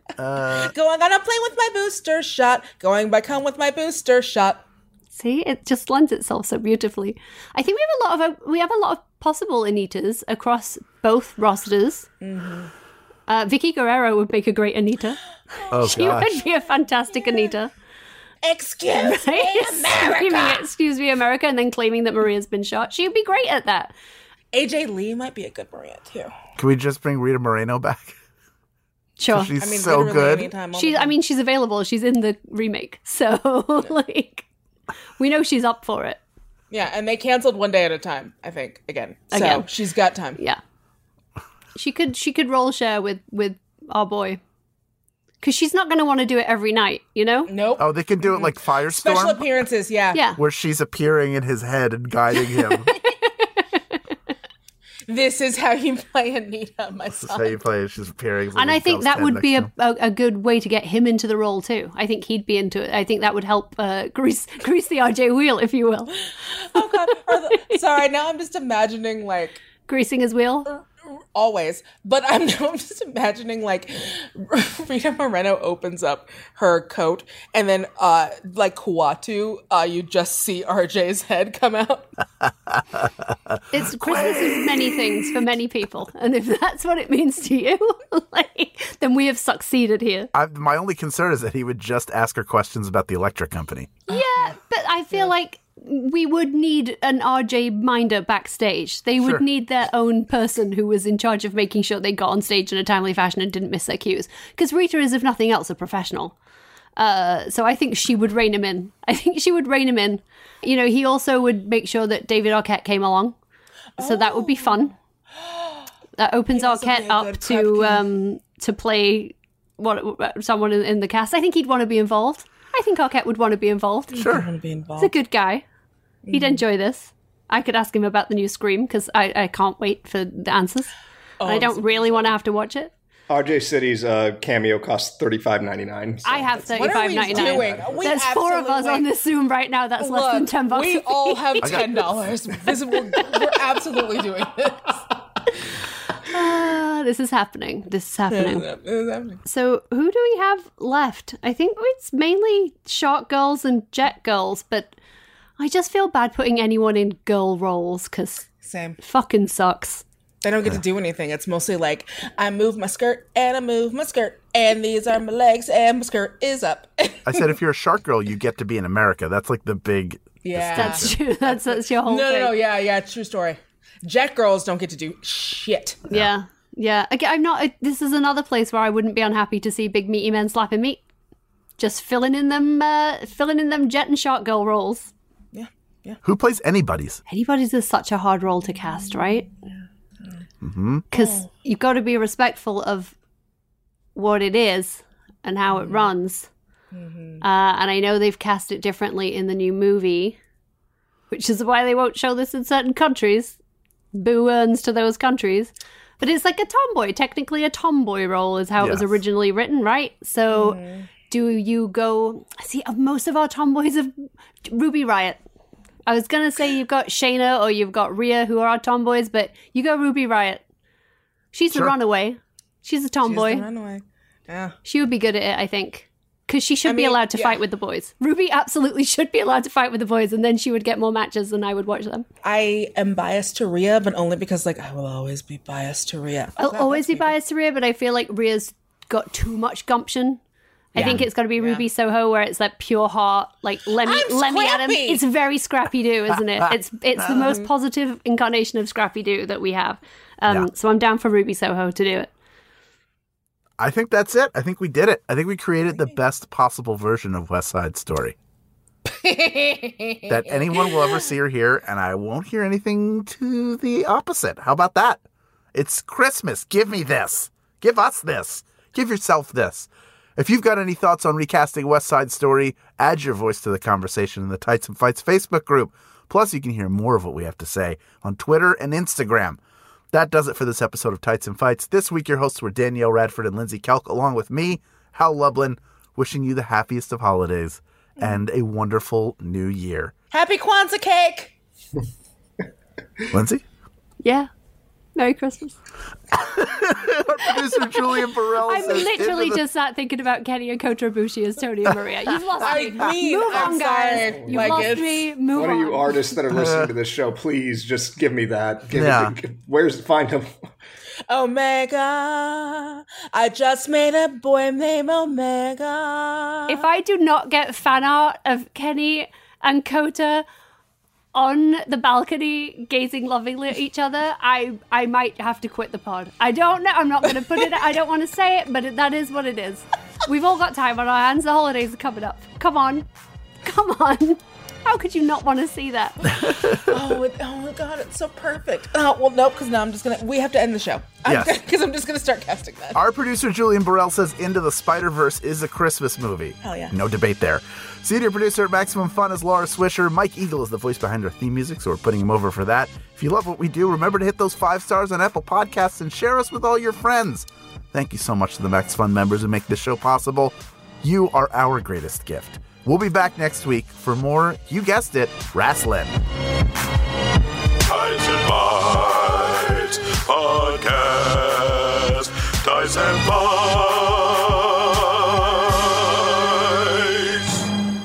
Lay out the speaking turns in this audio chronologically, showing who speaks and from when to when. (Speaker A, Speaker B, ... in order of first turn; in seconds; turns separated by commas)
Speaker A: 0.2-0.7, Speaker B: 0.5-4.6, Speaker C: 5.1-12.1, Speaker B: 12.2-12.7, Speaker C: 13.3-17.7, Speaker A: 15.7-16.4, Speaker B: 18.4-20.6, Speaker C: 19.0-23.9, Speaker B: 24.5-26.3, Speaker A: 26.6-28.2, Speaker C: 29.2-29.5, Speaker A: 29.3-30.5, Speaker B: 29.6-31.1, Speaker C: 30.7-34.4, Speaker C: 35.2-36.2, Speaker B: 36.7-40.4, Speaker C: 39.3-39.6, Speaker C: 41.7-44.4, Speaker C: 45.4-47.5, Speaker B: 47.5-50.2, Speaker A: 47.8-49.4, Speaker C: 50.1-50.4, Speaker A: 50.4-52.9, Speaker B: 55.1-57.5, Speaker A: 57.1-59.7, Speaker C: 58.5-66.1, Speaker B: 66.7-69.6, Speaker C: 67.3-67.7, Speaker C: 69.8-70.7, Speaker B: 71.3-82.2, Speaker C: 83.7-90.3, Speaker A: 84.1-84.6, Speaker B: 84.1-84.6, Speaker A: 90.3-94.0, Speaker C: 94.1-106.3, Speaker B: 94.1-94.5, Speaker C: 107.0-113.3, Speaker B: 114.0-114.8, Speaker C: 114.0-114.9, Speaker B: 115.4-115.8, Speaker C: 116.2-124.2, Speaker B: 116.5-118.0, Speaker A: 124.1-124.5, Speaker B: 124.1-125.1, Speaker C: 125.0-125.6, Speaker B: 126.2-126.6, Speaker C: 126.3-130.9, Speaker B: 131.4-132.3, Speaker C: 131.4-132.9, Speaker D: 133.3-137.9, Speaker C: 136.2-141.8, Speaker B: 136.7-139.1, Speaker B: 140.0-145.0, Speaker A: 141.6-142.3, Speaker C: 146.3-148.6, Speaker B: 148.3-149.4, Speaker C: 149.4-154.9, Speaker C: 155.6-158.5, Speaker B: 158.6-159.0, Speaker C: 159.0-160.0, Speaker B: 160.4-167.5, Speaker A: 167.2-171.1, Speaker B: 170.4-176.1, Speaker C: 170.7-172.5, Speaker C: 176.1-181.0, Speaker C: 181.8-185.1, Speaker B: 185.5-186.2, Speaker A: 186.2-187.2, Speaker C: 187.3-189.4, Speaker A: 190.6-191.0, Speaker C: 191.1-193.1, Speaker B: 191.1-191.4, Speaker C: 194.1-196.5, Speaker B: 195.7-196.1, Speaker B: 196.9-197.4, Speaker C: 197.4-200.4, Speaker C: 201.3-203.6, Speaker C: 204.1-214.1, Speaker A: 208.8-209.2, Speaker B: 210.5-211.1, Speaker C: 214.6-215.4, Speaker C: 216.1-220.6, Speaker C: 221.5-223.6, Speaker B: 223.2-224.8, Speaker C: 224.8-232.2, Speaker B: 226.8-227.6, Speaker B: 232.4-237.3, Speaker C: 236.6-240.4, Speaker C: 240.9-252.3, Speaker A: 240.9-241.2, Speaker B: 241.6-241.8, Speaker B: 244.0-245.2, Speaker B: 247.3-247.7, Speaker A: 253.8-258.4, Speaker B: 259.1-261.2, Speaker A: 260.3-265.2, Speaker A: 265.7-279.6, Speaker A: 280.1-290.1, Speaker B: 290.3-291.5, Speaker A: 293.3-293.6, Speaker C: 294.2-294.5, Speaker C: 295.1-295.8, Speaker A: 296.4-299.6, Speaker C: 298.7-306.2, Speaker B: 302.6-305.2, Speaker D: 304.3-304.9, Speaker D: 305.5-310.6, Speaker A: 306.5-306.9, Speaker A: 308.9-309.3, Speaker B: 311.3-316.8, Speaker C: 316.7-320.4, Speaker C: 321.3-333.1, Speaker C: 333.6-336.3, Speaker A: 336.3-336.7, Speaker B: 336.8-343.0, Speaker A: 341.3-341.5, Speaker A: 342.9-366.2, Speaker B: 346.6-346.9, Speaker E: 367.8-377.5